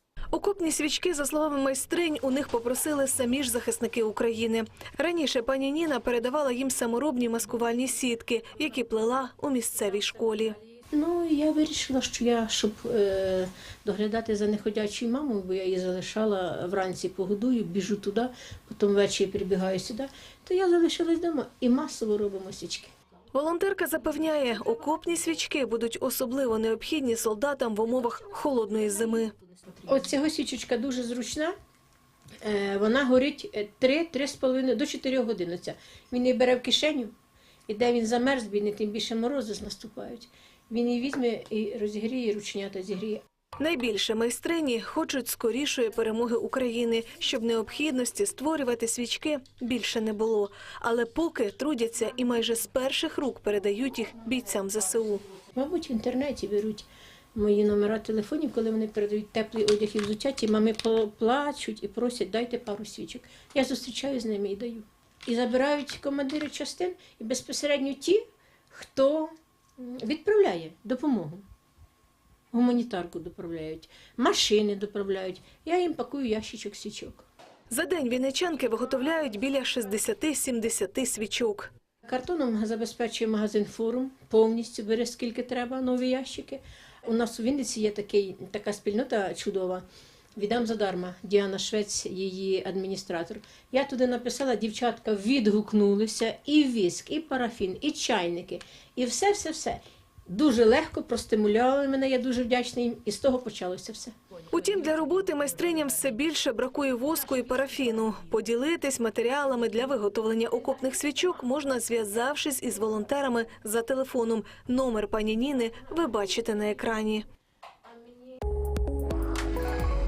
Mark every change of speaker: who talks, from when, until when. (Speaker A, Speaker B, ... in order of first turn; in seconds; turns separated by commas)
Speaker A: 0.3-10.6, Speaker B: 10.9-22.9, Speaker A: 23.3-29.3, Speaker B: 29.9-31.5, Speaker B: 32.4-37.1, Speaker B: 37.7-43.2, Speaker A: 43.6-55.2, Speaker B: 55.5-71.4, Speaker B: 72.5-77.2, Speaker A: 77.7-81.7, Speaker B: 82.0-89.8, Speaker B: 90.3-104.1, Speaker A: 104.5-117.2